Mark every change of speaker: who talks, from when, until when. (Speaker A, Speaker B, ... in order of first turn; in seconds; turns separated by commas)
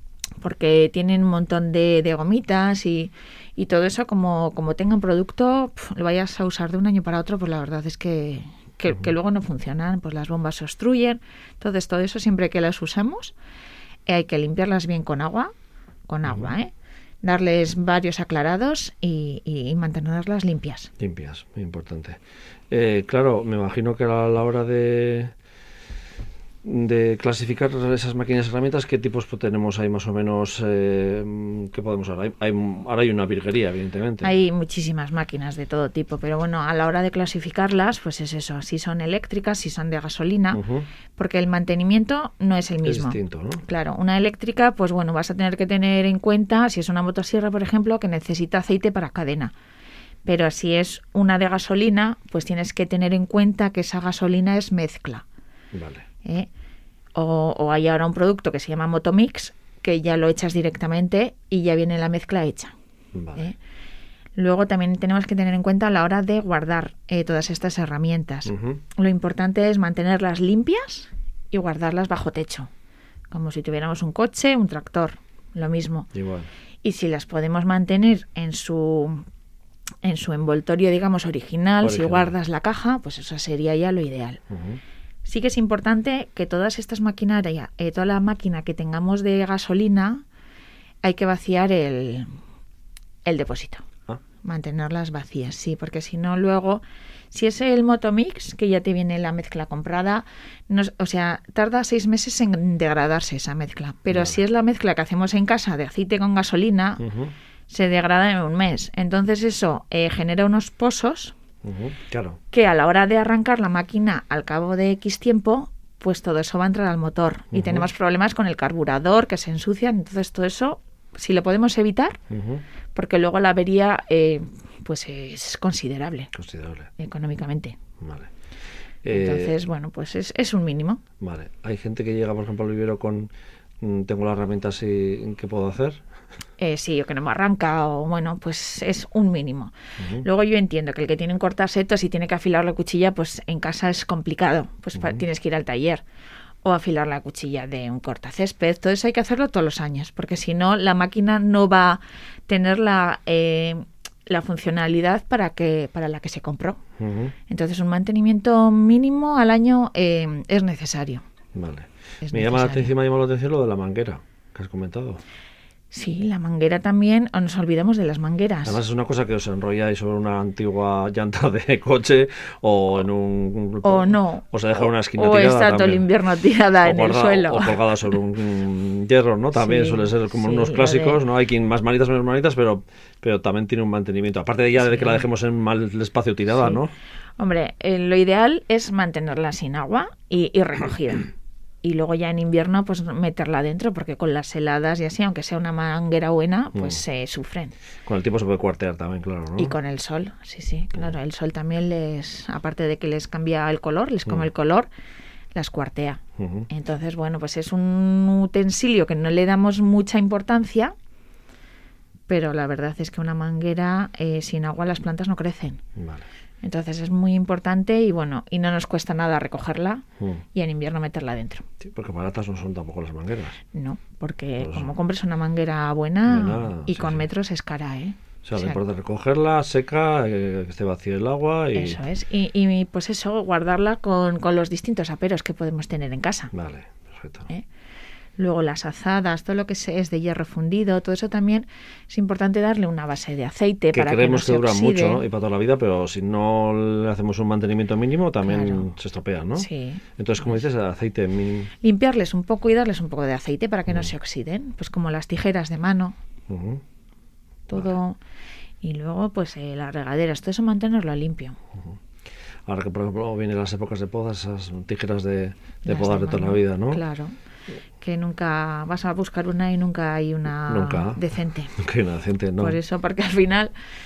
Speaker A: 0.4-13.3, Speaker A: 14.1-15.5, Speaker A: 16.1-16.7, Speaker B: 16.2-16.5, Speaker A: 17.2-20.9, Speaker B: 21.0-22.2, Speaker B: 22.7-25.3, Speaker B: 26.6-34.3, Speaker A: 34.2-40.6, Speaker B: 40.5-40.9, Speaker A: 41.1-49.5, Speaker B: 42.8-43.6, Speaker A: 50.2-55.2, Speaker B: 55.7-56.1, Speaker A: 56.2-56.5, Speaker A: 57.1-62.8, Speaker B: 63.1-63.5, Speaker A: 64.3-72.7, Speaker B: 68.5-68.8, Speaker A: 73.3-76.1, Speaker B: 76.1-76.5, Speaker A: 76.8-79.2, Speaker A: 80.0-84.4, Speaker B: 81.8-82.3, Speaker B: 84.5-84.8, Speaker A: 85.2-90.2, Speaker A: 91.0-92.3, Speaker A: 93.2-93.8, Speaker A: 94.4-107.0, Speaker B: 104.1-104.4, Speaker B: 107.0-107.3, Speaker A: 107.7-111.3, Speaker B: 111.6-112.4, Speaker A: 112.5-122.2, Speaker B: 117.5-117.9, Speaker B: 122.3-122.6, Speaker A: 122.9-126.3, Speaker B: 126.3-126.9, Speaker A: 127.0-127.8, Speaker B: 128.0-128.3, Speaker B: 129.0-129.6, Speaker A: 129.1-131.0, Speaker B: 131.2-133.3, Speaker B: 133.8-136.0, Speaker A: 136.6-146.0, Speaker B: 140.0-140.2, Speaker B: 144.9-145.2, Speaker A: 146.6-156.8, Speaker B: 157.0-157.3, Speaker A: 157.5-161.2, Speaker B: 161.5-165.2, Speaker A: 162.2-162.9, Speaker A: 165.9-168.8, Speaker B: 168.6-176.1, Speaker A: 173.8-178.2, Speaker B: 176.8-186.9, Speaker A: 179.5-181.2, Speaker A: 184.8-185.2, Speaker A: 186.5-186.8, Speaker A: 187.4-191.3, Speaker A: 191.8-197.8, Speaker B: 196.8-197.0, Speaker B: 198.1-199.8, Speaker A: 199.6-204.9, Speaker A: 205.5-210.9, Speaker B: 206.4-206.7, Speaker A: 212.3-215.8, Speaker B: 215.9-216.2, Speaker A: 216.6-221.6, Speaker B: 221.8-223.6, Speaker A: 223.7-228.8, Speaker B: 224.6-224.9, Speaker B: 226.2-227.2, Speaker B: 228.4-232.0, Speaker A: 231.8-236.5, Speaker B: 236.5-237.5, Speaker A: 238.4-245.2, Speaker B: 243.9-251.7, Speaker A: 248.4-248.9, Speaker A: 249.6-250.6, Speaker A: 251.8-256.2, Speaker B: 256.5-256.8, Speaker A: 257.7-258.2, Speaker A: 258.8-261.6, Speaker B: 262.7-267.0, Speaker A: 265.8-267.4, Speaker A: 268.0-271.8, Speaker B: 270.7-272.8, Speaker A: 272.6-273.7